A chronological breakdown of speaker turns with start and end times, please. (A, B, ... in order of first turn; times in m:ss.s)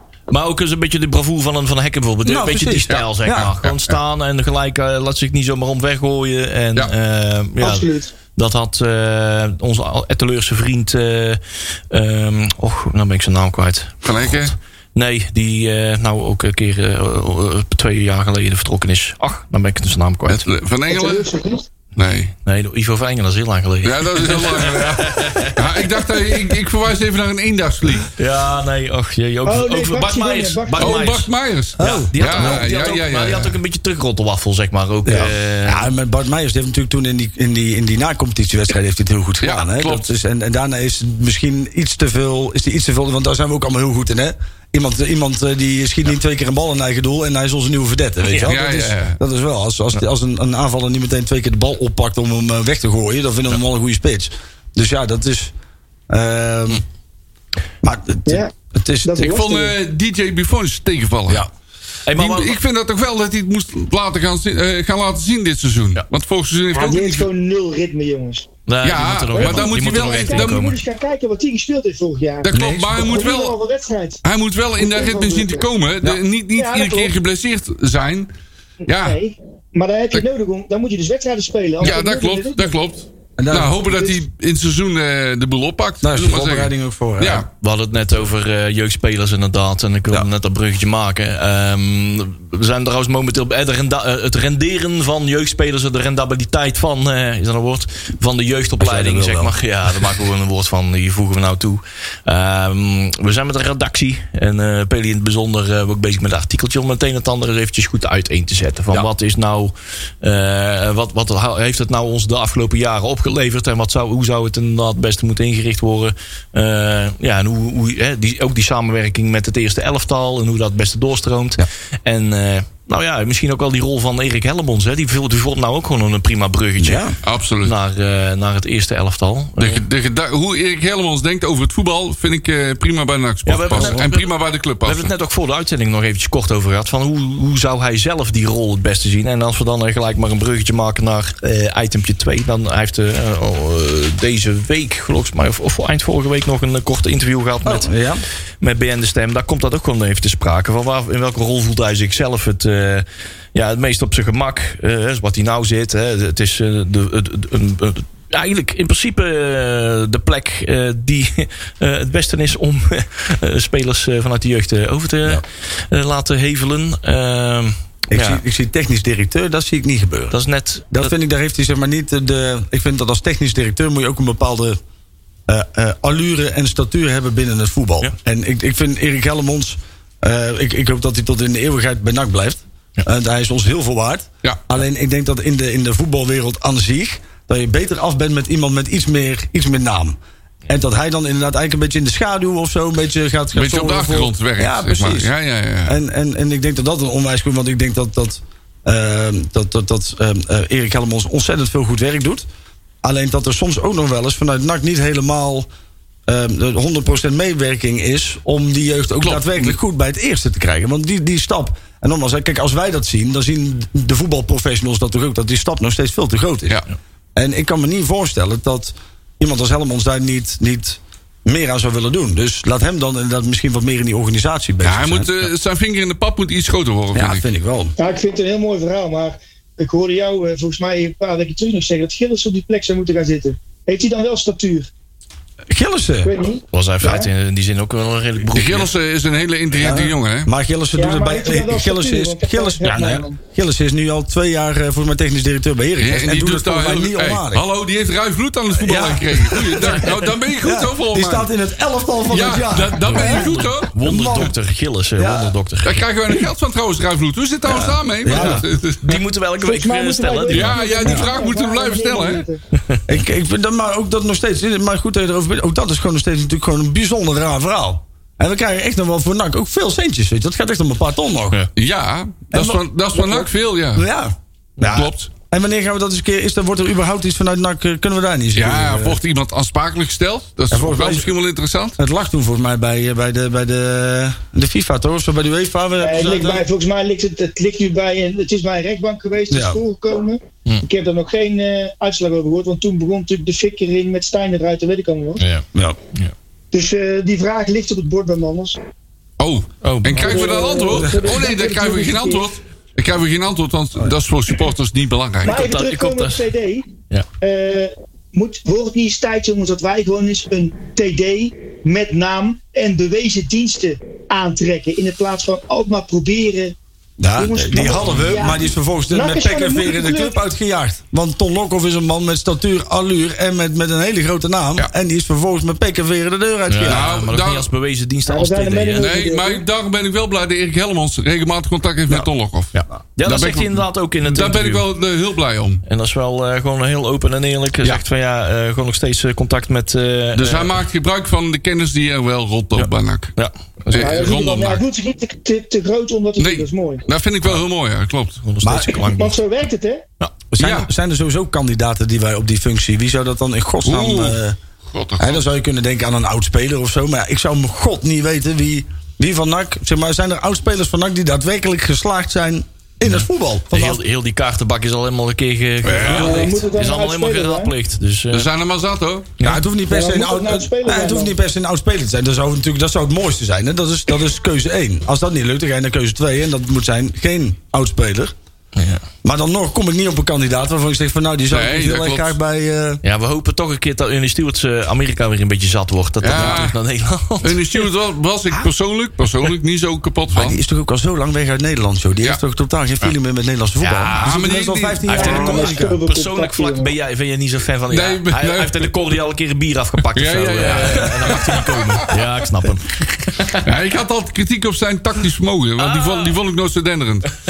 0:00.3-0:20.5 A
0:02.2-0:03.5 B
0:02.9-0:04.0 C
0:07.6-0:08.1 D
0:14.0-0:14.5 C
0:20.3-0:21.3 C
0:20.9-0:21.6 D
0:22.0-0:22.3 C
0:22.4-0:25.9 A
0:23.8-0:28.1 C
0:28.1-0:35.9 A
0:29.4-0:31.1 D
0:30.8-0:33.6 C
0:31.8-0:32.7 B
0:35.0-0:55.5 B
0:39.4-0:40.1 C
0:48.2-0:48.6 A
0:48.4-0:49.2 C
0:56.1-0:56.8 B
0:57.8-0:59.2 B
0:58.3-0:58.5 D
0:59.0-0:59.7 D
0:59.2-1:01.4 C
1:02.0-1:02.6 A
1:02.1-1:07.3 C
1:06.7-1:08.5 D
1:08.7-1:10.8 A
1:08.8-1:10.7 C
1:09.3-1:14.2 D
1:12.4-1:13.6 C
1:12.5-1:13.2 B
1:14.2-1:18.3 C
1:14.8-1:15.6 D
1:16.6-1:17.1 D
1:18.8-1:22.7 D
1:18.9-1:19.2 C
1:21.8-1:27.5 C
1:23.4-1:23.8 B
1:23.8-1:24.2 D
1:26.0-1:27.5 B
1:27.6-2:07.0 A
1:38.8-1:39.5 B
2:06.8-2:07.2 B
2:07.2-2:07.7 C
2:07.6-2:09.8 A
2:09.6-2:15.1 C
2:13.4-2:14.3 A
2:13.7-2:14.1 B
2:14.8-2:27.9 A
2:27.6-2:28.2 B
2:28.6-2:48.4 A
2:48.1-2:50.4 B
2:50.3-2:51.1 A
2:50.9-2:54.8 B
2:55.5-3:10.2 B
3:10.7-3:15.3 B
3:13.5-3:16.0 C
3:15.8-3:22.4 B
3:23.0-3:25.7 B
3:26.3-3:36.8 B
3:29.2-3:29.8 C
3:37.4-3:45.4 B
3:44.8-3:47.4 C
3:47.1-3:47.9 B
3:48.0-3:54.9 D
3:55.7-3:56.3 B
3:56.2-3:57.3 D
3:56.7-3:58.9 A
3:58.5-4:00.5 C
3:59.7-4:07.6 B
4:00.9-4:03.4 D
4:06.0-4:11.5 C
4:08.7-4:13.5 B
4:12.3-4:14.5 C
4:13.0-4:16.0 A
4:14.0-4:14.5 B
4:15.2-4:15.5 B
4:15.8-4:19.2 C
4:17.7-4:20.8 A
4:17.7-4:18.6 B
4:19.6-4:22.6 D
4:20.5-4:22.5 C
4:21.0-4:21.3 B
4:23.1-4:31.6 B
4:31.8-4:34.0 C
4:32.5-4:39.2 B
4:34.9-4:35.3 C
4:38.5-4:42.0 C
4:40.7-4:41.3 B
4:42.0-4:46.7 B
4:46.0-4:55.4 D
4:49.5-4:49.8 B
4:55.4-4:56.3 A
4:56.7-4:58.8 D
4:59.4-5:05.7 C
4:59.8-5:00.5 A
5:00.2-5:02.4 D
5:00.9-5:01.4 B
5:05.4-5:06.9 D
5:05.4-5:06.5 A
5:07.4-5:16.7 D
5:17.2-5:27.1 B
5:17.4-5:20.4 D
5:26.7-5:29.1 A
5:26.8-5:27.7 C
5:28.3-5:29.6 D
5:29.0-5:35.8 C
5:32.7-5:34.8 A
5:35.8-5:40.8 A
5:40.4-5:43.3 C
5:42.8-5:44.3 A
5:43.9-5:44.8 C
5:44.0-5:47.0 D
5:46.4-5:48.4 C
5:48.4-5:49.4 A
5:48.6-5:49.0 B
5:49.1-5:50.0 D
5:50.5-5:54.6 B
5:50.6-5:50.9 C
5:53.8-5:54.4 C
5:54.9-5:55.5 C
5:55.2-6:04.0 B
6:03.1-6:08.5 A
6:05.8-6:06.5 C
6:06.1-6:07.7 D
6:08.3-6:09.4 C
6:09.4-6:18.3 B
6:09.9-6:11.3 D
6:18.8-6:19.0 A
6:19.2-6:23.0 B
6:21.5-6:22.4 C
6:23.0-6:27.8 A
6:26.2-6:26.8 C
6:26.3-6:26.6 B
6:27.4-6:30.6 C
6:30.3-6:36.0 B
6:33.8-6:34.4 A
6:34.2-6:35.2 C
6:35.1-6:43.7 A
6:35.1-6:36.9 D
6:37.9-6:38.9 C
6:40.1-6:42.1 C
6:43.6-6:47.3 C
6:45.8-6:46.4 A